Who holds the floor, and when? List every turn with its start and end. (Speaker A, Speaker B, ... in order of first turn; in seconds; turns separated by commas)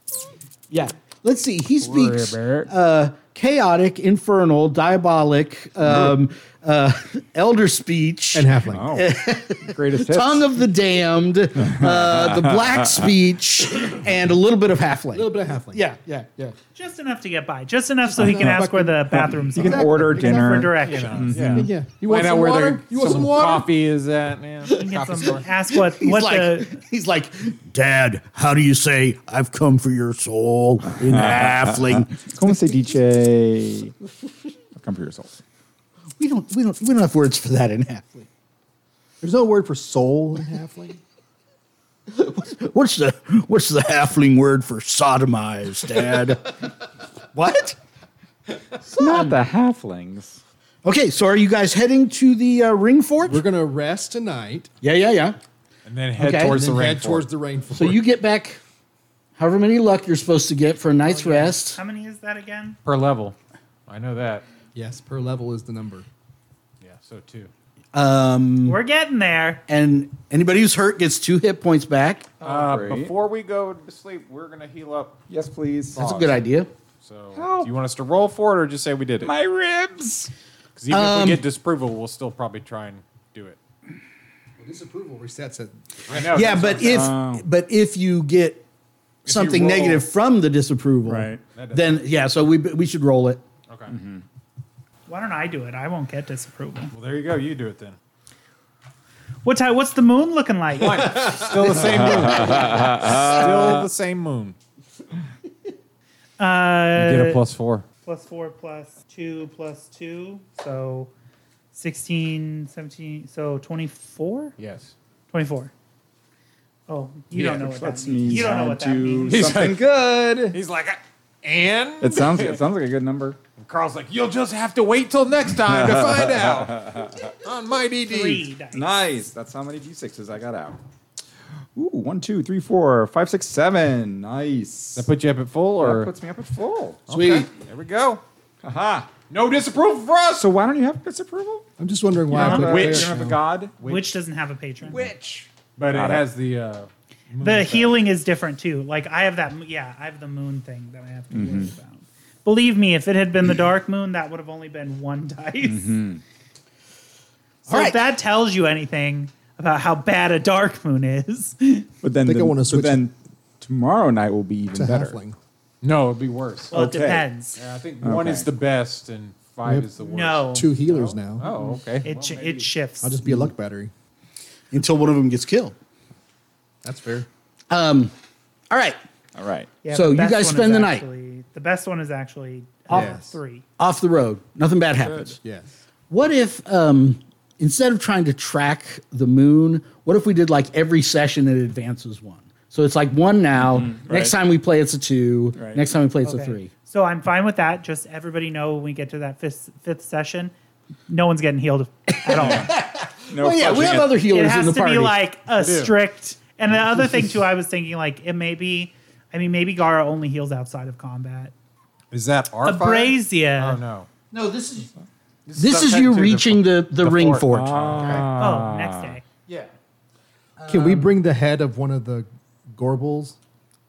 Speaker A: 0.7-16.5, Speaker B: 1.8-2.7, Speaker C: 8.3-8.9, Speaker B: 8.7-9.1, Speaker B: 9.6-10.5, Speaker B: 11.6-13.0, Speaker C: 15.1-15.8, Speaker D: 16.7-21.4, Speaker C: 18.1-20.8, Speaker B: 19.5-21.7, Speaker E: 20.8-25.4, Speaker C: 21.3-23.7, Speaker D: 24.7-26.8, Speaker A: 25.7-32.3, Speaker B: 31.0-33.9, Speaker B: 34.8-35.4, Speaker A: 36.2-38.3, Speaker C: 39.2-41.0, Speaker A: 42.1-46.6, Speaker A: 47.3-47.8, Speaker A: 48.9-49.4, Speaker B: 48.9-50.4, Speaker A: 50.8-53.4, Speaker C: 53.2-54.7, Speaker A: 54.8-55.4, Speaker E: 55.9-57.3, Speaker A: 56.2-56.6, Speaker C: 56.4-58.0, Speaker A: 57.7-58.6, Speaker A: 59.4-61.8, Speaker D: 61.0-62.8, Speaker E: 62.8-63.4, Speaker E: 63.9-64.4, Speaker C: 64.7-66.0, Speaker E: 66.8-67.5, Speaker A: 67.9-68.8, Speaker D: 68.6-69.6, Speaker A: 69.7-72.3, Speaker E: 72.4-75.2, Speaker B: 72.4-73.1, Speaker B: 75.3-76.3, Speaker A: 75.9-76.7, Speaker E: 77.0-79.3, Speaker B: 77.3-77.7, Speaker B: 79.2-80.3, Speaker E: 80.8-83.6, Speaker A: 80.9-81.4, Speaker C: 84.6-86.4, Speaker E: 86.1-87.1, Speaker A: 86.1-88.6, Speaker B: 86.8-87.4, Speaker E: 89.2-90.1, Speaker A: 89.2-93.4, Speaker B: 91.0-91.4, Speaker E: 91.5-92.0, Speaker E: 93.7-93.9, Speaker B: 93.9-94.2, Speaker D: 95.1-96.9, Speaker E: 96.9-98.0, Speaker D: 99.4-101.4, Speaker E: 100.8-104.5, Speaker C: 101.1-101.5, Speaker B: 101.8-103.9, Speaker D: 106.4-107.4, Speaker E: 107.0-107.8, Speaker D: 108.0-111.1, Speaker D: 111.7-114.5, Speaker E: 114.6-114.9, Speaker D: 115.3-115.7, Speaker D: 116.9-119.6, Speaker B: 117.3-120.6, Speaker E: 119.3-119.9, Speaker E: 120.5-122.6, Speaker B: 122.0-123.4, Speaker E: 123.6-128.0, Speaker B: 125.6-127.3, Speaker C: 125.8-126.6, Speaker C: 127.5-128.4, Speaker D: 128.0-128.9, Speaker B: 128.7-130.8, Speaker B: 131.7-135.1, Speaker E: 134.9-136.1, Speaker B: 135.8-137.0, Speaker E: 137.1-138.2, Speaker A: 137.1-137.4, Speaker B: 138.6-139.1, Speaker E: 139.3-140.5, Speaker B: 140.4-141.7, Speaker C: 141.8-143.4, Speaker B: 142.3-143.7, Speaker E: 142.3-144.1, Speaker D: 142.3-142.8, Speaker D: 143.8-145.1, Speaker B: 144.8-146.2, Speaker E: 145.8-148.0, Speaker D: 147.4-156.0, Speaker B: 151.3-151.7, Speaker B: 155.6-156.2, Speaker D: 157.7-161.9, Speaker A: 157.7-158.0, Speaker B: 162.0-165.2, Speaker C: 162.2-163.0, Speaker C: 164.7-165.4, Speaker E: 165.8-166.8, Speaker D: 166.7-167.6, Speaker B: 166.7-167.2, Speaker E: 167.6-172.7, Speaker B: 168.0-168.5, Speaker C: 169.6-169.9, Speaker D: 170.0-170.7, Speaker C: 170.5-171.5, Speaker B: 171.4-171.8, Speaker D: 172.0-173.2, Speaker C: 173.0-173.9, Speaker A: 174.7-175.7, Speaker C: 176.8-177.3, Speaker A: 177.7-178.1, Speaker A: 178.7-179.0, Speaker B: 179.3-179.7, Speaker D: 179.8-183.6, Speaker A: 179.9-181.1, Speaker C: 182.9-183.3, Speaker A: 183.8-185.4, Speaker B: 185.0-185.3, Speaker C: 185.4-185.7, Speaker A: 186.1-196.7, Speaker B: 193.7-194.3, Speaker B: 195.6-195.8, Speaker D: 196.2-200.5, Speaker D: 201.1-202.7, Speaker A: 202.2-205.2, Speaker B: 203.3-204.1, Speaker D: 204.3-211.5, Speaker E: 205.6-205.9, Speaker E: 212.1-214.1, Speaker D: 212.6-213.8, Speaker A: 214.3-214.9, Speaker E: 215.5-218.3, Speaker A: 215.6-218.2, Speaker B: 217.5-219.2, Speaker D: 218.4-219.2, Speaker A: 220.6-221.1, Speaker C: 220.7-223.3